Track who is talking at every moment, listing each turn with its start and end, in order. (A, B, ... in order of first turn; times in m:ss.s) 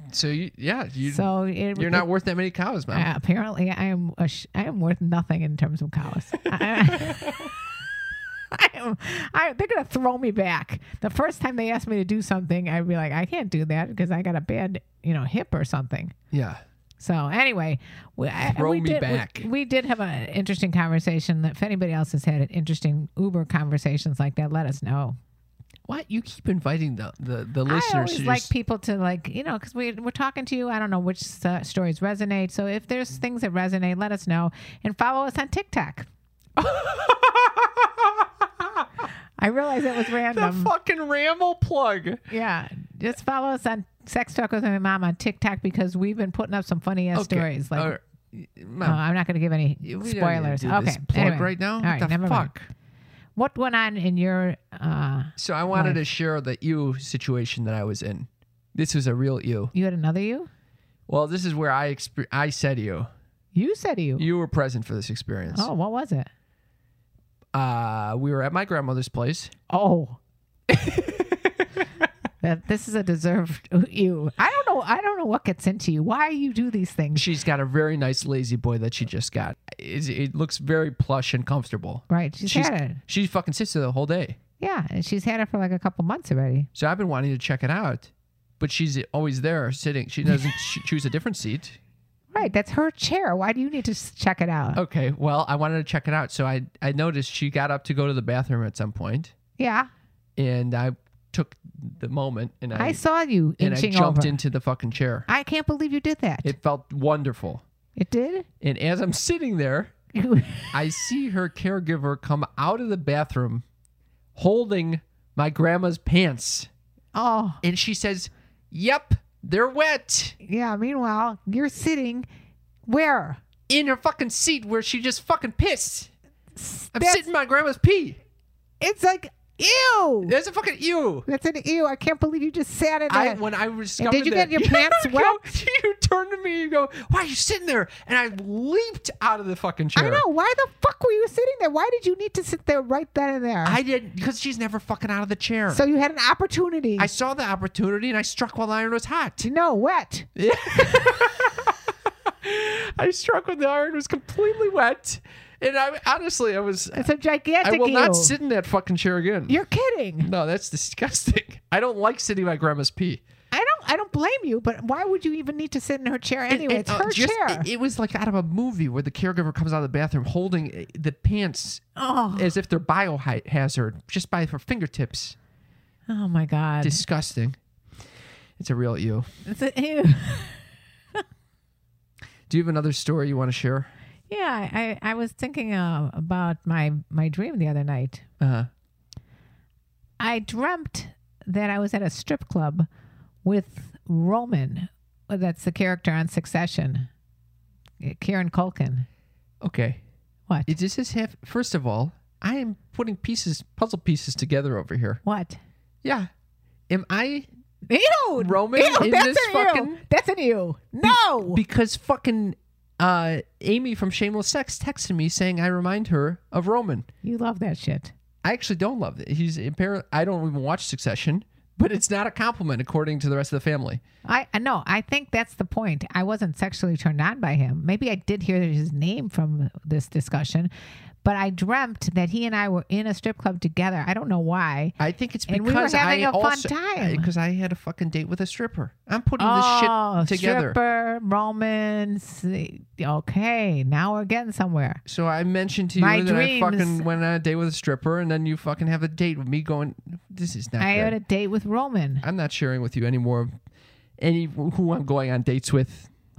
0:00.1-0:03.1 A
0:01.1-0:02.1 B
0:02.9-0:07.5 B
0:06.9-0:07.1 A
0:08.5-0:16.2 B
0:16.3-0:16.6 A
0:17.0-0:25.2 B
0:18.4-0:19.5 A
0:25.9-0:28.5 A
0:27.7-0:36.1 B
0:36.6-0:38.9 A
0:39.4-0:40.7 B
0:40.3-0:42.2 A
0:42.3-0:48.0 B
0:47.2-0:49.0 A
0:48.8-0:52.5 B
0:49.8-0:52.7 A
0:53.4-0:56.0 B
0:55.4-0:59.7 A
0:59.7-1:00.5 B
1:01.1-1:03.1 A
1:03.5-1:04.2 B
1:04.2-1:05.7 A
1:05.5-1:06.3 B
1:07.5-1:09.5 A
1:09.7-1:10.2 B
1:10.7-1:11.4 A
1:12.4-1:17.3 B
1:17.2-1:24.4 A
1:22.1-1:23.0 B
1:24.6-1:26.7 B
1:26.8-1:31.8 A
1:32.3-1:34.8 B
1:34.8-1:39.3 A
1:39.6-1:39.9 B
1:40.4-1:43.0 A
1:42.8-1:44.4 B
1:43.6-1:45.3 A
1:45.3-1:46.6 B
1:46.4-1:47.6 A
1:48.0-1:48.5 B
1:48.6-1:49.9 A
1:50.1-1:50.8 B
1:50.7-1:53.6 A
1:54.4-1:56.7 A
1:57.1-1:57.6 B
1:57.6-2:00.4 A
2:00.4-2:02.3 B
2:02.9-2:03.4 B
2:03.7-2:06.1 A
2:06.6-2:07.2 B
2:06.9-2:08.2 A
2:08.8-2:10.4 B
2:10.3-2:11.3 A
2:11.3-2:13.4 B
2:13.1-2:20.2 A
2:14.0-2:15.4 B
2:20.0-2:23.8 B
2:23.6-2:25.8 A
2:25.7-2:27.1 B
2:27.0-2:29.5 A
2:29.4-2:30.3 B
2:30.4-2:31.8 A
2:32.3-2:37.1 A
2:36.9-2:38.3 B
2:37.6-2:39.6 A
2:39.5-2:40.3 B
2:40.2-2:43.2 A
2:43.5-2:47.7 B
2:46.5-2:51.8 A
2:52.0-2:52.5 B
2:52.3-2:55.4 A
2:56.1-2:57.0 B
2:56.8-2:57.6 A
2:58.6-2:59.3 A
2:59.4-3:00.6 B
3:02.5-3:03.9 A
3:04.3-3:08.2 B
3:08.4-3:08.7 A
3:10.2-3:12.9 B
3:13.4-3:17.1 B
3:18.0-3:19.1 B
3:19.6-3:20.0 A
3:20.7-3:25.2 A
3:25.2-3:25.6 B
3:26.0-3:26.3 A
3:26.9-3:27.5 A
3:27.9-3:31.6 B
3:28.4-3:30.0 A
3:31.0-3:37.1 A
3:37.2-3:38.1 B
3:38.4-3:44.0 A
3:44.2-3:50.7 B
3:51.2-3:55.0 B
3:55.0-4:00.8 A
3:55.5-3:57.3 B
3:59.4-4:05.0 B
4:05.1-4:11.2 A
4:06.0-4:07.1 B
4:10.8-4:12.2 B
4:12.2-4:13.5 A
4:14.2-4:16.1 A